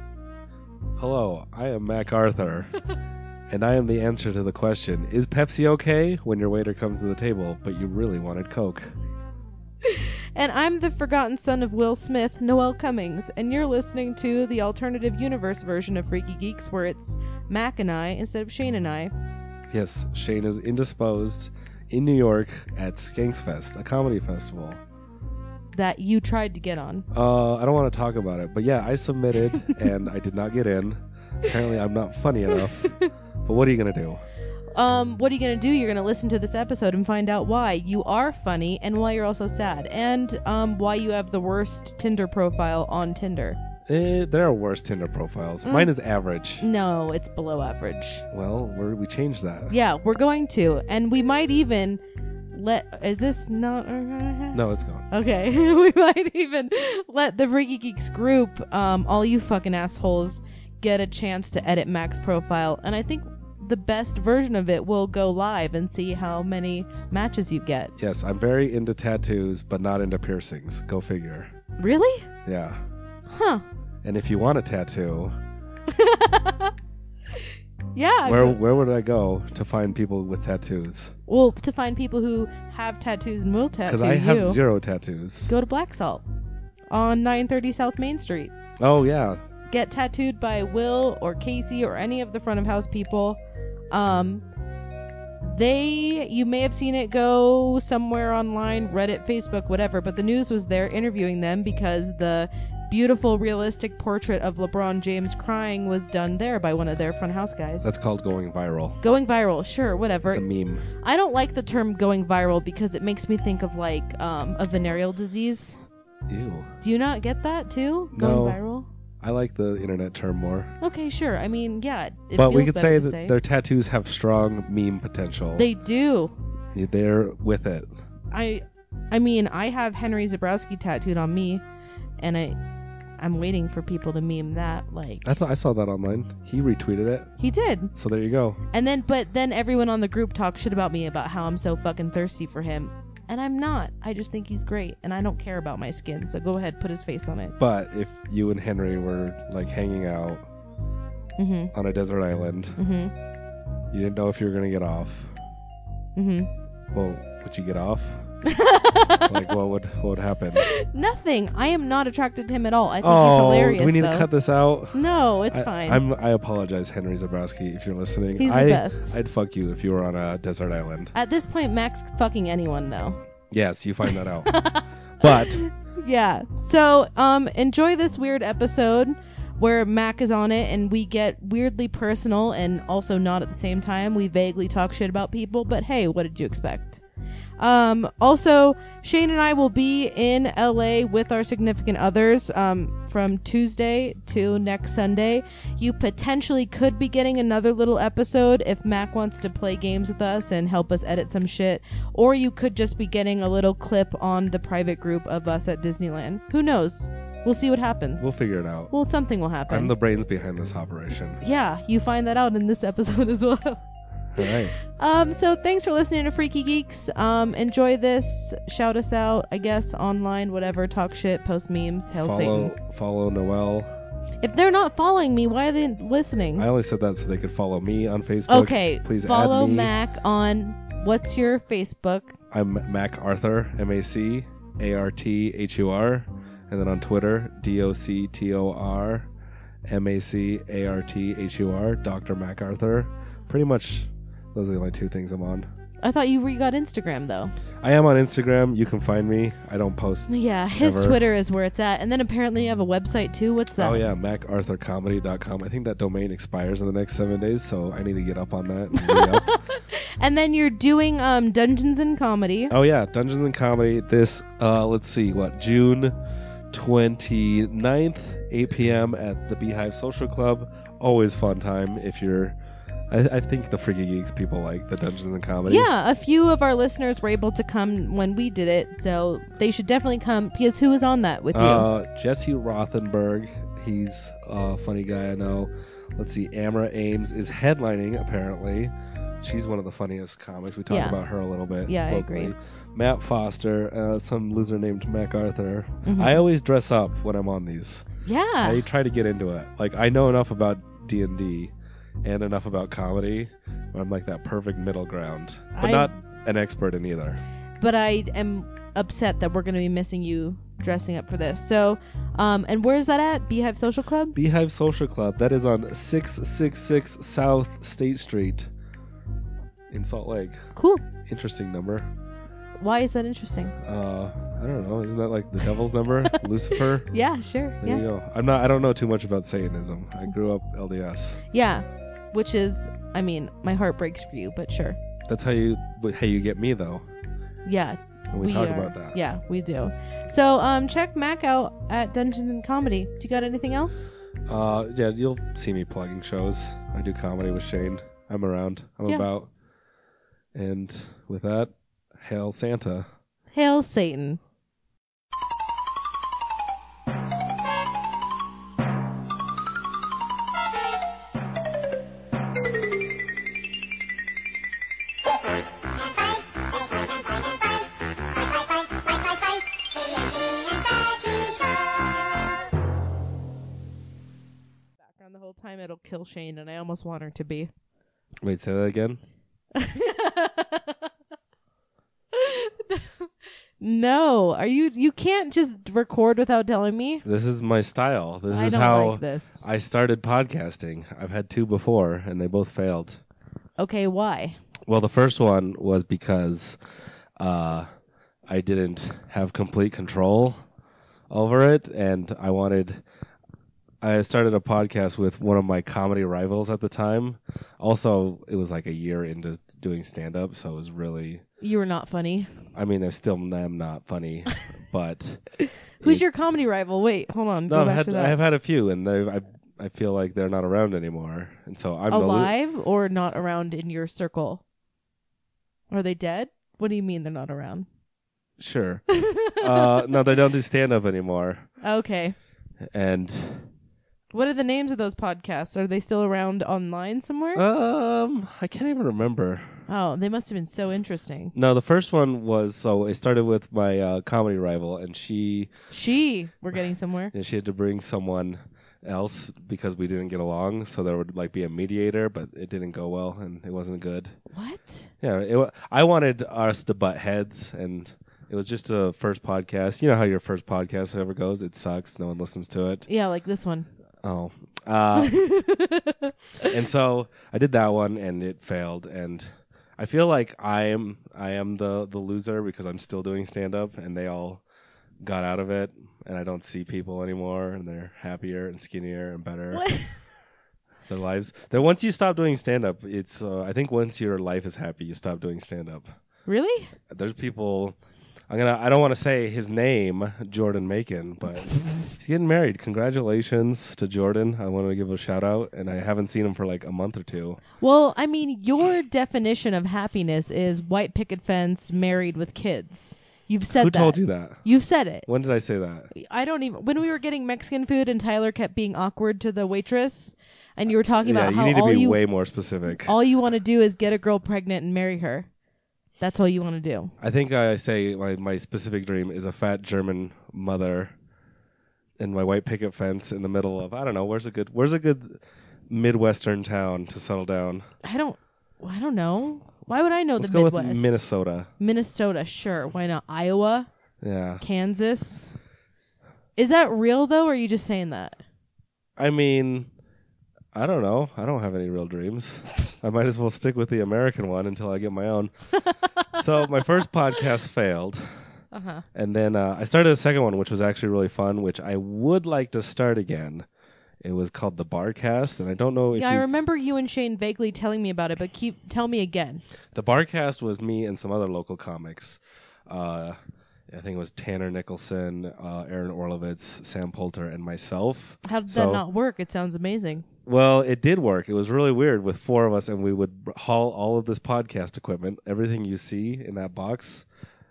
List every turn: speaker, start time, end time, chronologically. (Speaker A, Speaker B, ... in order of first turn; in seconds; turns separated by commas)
Speaker A: 1.0-2.8, Speaker A: 3.5-8.9, Speaker B: 9.8-19.1, Speaker A: 19.7-24.8, Speaker B: 25.7-27.1, Speaker A: 27.1-34.2, Speaker B: 34.7-43.6, Speaker A: 43.9-46.6, Speaker B: 45.6-45.9, Speaker B: 46.6-48.2, Speaker A: 48.3-49.7, Speaker B: 49.7-54.6, Speaker A: 54.5-55.1, Speaker B: 55.1-67.9, Speaker A: 68.0-71.5, Speaker B: 71.8-72.3, Speaker A: 72.4-72.8, Speaker B: 73.3-73.6, Speaker A: 74.0-75.3, Speaker B: 75.9-76.7, Speaker B: 77.3-78.6, Speaker A: 78.2-81.1, Speaker B: 81.3-84.6, Speaker A: 83.8-85.5, Speaker B: 85.5-86.2, Speaker B: 86.9-88.5, Speaker A: 88.8-89.4, Speaker B: 89.7-93.4, Speaker B: 93.9-94.4, Speaker B: 95.4-107.9, Speaker A: 107.8-109.0, Speaker B: 109.0-110.4, Speaker A: 110.3-110.8, Speaker B: 111.0-115.8, Speaker A: 116.3-116.7, Speaker B: 116.8-118.9, Speaker A: 118.1-118.6, Speaker A: 119.2-120.7, Speaker B: 120.8-123.3, Speaker A: 122.3-125.7, Speaker B: 125.5-126.3, Speaker A: 126.7-127.9, Speaker B: 128.3-131.6, Speaker B: 132.2-132.6, Speaker B: 133.2-135.3, Speaker A: 135.2-137.3, Speaker B: 137.4-137.9, Speaker A: 137.9-138.6, Speaker B: 138.7-147.5, Speaker A: 147.6-150.5, Speaker B: 151.4-151.7, Speaker A: 151.7-152.8, Speaker B: 152.8-153.1, Speaker A: 153.9-155.3, Speaker B: 156.2-156.5, Speaker A: 156.9-158.3, Speaker B: 158.4-159.4, Speaker A: 159.3-160.7, Speaker B: 160.6-164.3, Speaker A: 163.0-165.0, Speaker B: 164.9-166.0, Speaker A: 165.5-171.1, Speaker B: 168.4-169.2, Speaker B: 171.1-173.2, Speaker A: 173.5-174.5, Speaker B: 174.1-187.0, Speaker A: 175.2-175.6, Speaker B: 187.6-208.3, Speaker A: 208.2-208.9, Speaker B: 208.9-209.9, Speaker A: 209.7-211.4, Speaker B: 211.4-213.8, Speaker A: 214.3-214.7, Speaker B: 214.4-222.7, Speaker A: 222.2-223.9, Speaker B: 224.4-226.7, Speaker A: 226.6-229.9, Speaker B: 228.5-232.3, Speaker A: 232.5-239.3, Speaker A: 239.8-245.7, Speaker B: 246.0-247.5, Speaker A: 247.8-251.2, Speaker B: 250.3-254.0, Speaker A: 253.8-259.5, Speaker B: 258.9-262.7, Speaker A: 262.7-266.2, Speaker A: 266.7-272.6, Speaker A: 273.1-275.9, Speaker B: 275.7-281.9, Speaker A: 281.5-298.1, Speaker B: 290.9-291.2, Speaker B: 291.9-292.5, Speaker B: 296.0-296.4, Speaker B: 298.2-298.8, Speaker A: 298.6-301.7, Speaker A: 302.2-307.4, Speaker B: 305.8-306.1, Speaker B: 307.8-314.4, Speaker A: 314.3-318.7, Speaker A: 319.9-320.7, Speaker B: 320.7-321.1, Speaker A: 321.2-322.1, Speaker B: 322.8-323.8, Speaker A: 323.8-327.1, Speaker B: 327.1-328.1, Speaker A: 327.8-331.4, Speaker B: 331.5-335.0, Speaker A: 335.3-337.1, Speaker B: 337.6-344.1, Speaker A: 338.3-339.2, Speaker A: 344.5-349.5, Speaker A: 350.5-353.1, Speaker B: 353.5-354.4, Speaker B: 375.0-377.7, Speaker A: 378.4-379.2, Speaker B: 379.8-381.0, Speaker B: 382.3-383.3, Speaker B: 383.8-387.2, Speaker A: 387.2-393.2, Speaker B: 388.5-389.6, Speaker B: 393.8-394.6, Speaker A: 394.9-396.8, Speaker A: 397.4-397.9, Speaker A: 398.5-400.6, Speaker A: 401.3-403.0, Speaker A: 404.0-411.4, Speaker B: 411.6-412.5, Speaker A: 412.7-415.4, Speaker B: 416.0-418.4, Speaker A: 417.7-422.5, Speaker B: 422.1-424.6, Speaker B: 425.9-427.9, Speaker A: 428.6-431.7, Speaker B: 429.1-430.1, Speaker B: 431.8-432.4, Speaker A: 432.9-433.7, Speaker B: 434.3-437.6, Speaker A: 437.6-439.8, Speaker B: 439.9-441.5, Speaker A: 441.5-445.7, Speaker B: 445.9-447.3, Speaker A: 447.3-454.4, Speaker B: 454.5-455.1, Speaker A: 455.2-463.1, Speaker B: 463.1-463.9, Speaker A: 464.2-465.4, Speaker B: 465.2-466.7, Speaker A: 466.7-474.6, Speaker A: 475.2-479.9, Speaker B: 479.7-480.1, Speaker A: 481.1-486.1, Speaker B: 486.5-486.9, Speaker A: 487.1-488.0, Speaker A: 488.5-497.6, Speaker B: 497.8-505.3, Speaker A: 503.7-504.6, Speaker A: 505.3-506.1, Speaker B: 506.1-512.2, Speaker A: 511.2-513.1, Speaker B: 513.0-515.5, Speaker B: 516.2-517.1, Speaker A: 517.2-521.1, Speaker A: 522.2-527.9, Speaker B: 528.0-531.2, Speaker A: 530.4-531.7, Speaker B: 531.8-533.9, Speaker A: 534.2-534.6, Speaker B: 534.6-535.5, Speaker B: 536.6-538.4, Speaker A: 539.2-539.9, Speaker A: 540.7-545.5, Speaker B: 545.9-546.3, Speaker A: 546.3-548.4, Speaker B: 548.7-549.0, Speaker A: 549.1-553.6, Speaker A: 554.2-556.5, Speaker B: 556.1-559.6, Speaker A: 559.9-563.4, Speaker A: 563.9-569.0, Speaker B: 568.4-570.2, Speaker A: 570.4-577.2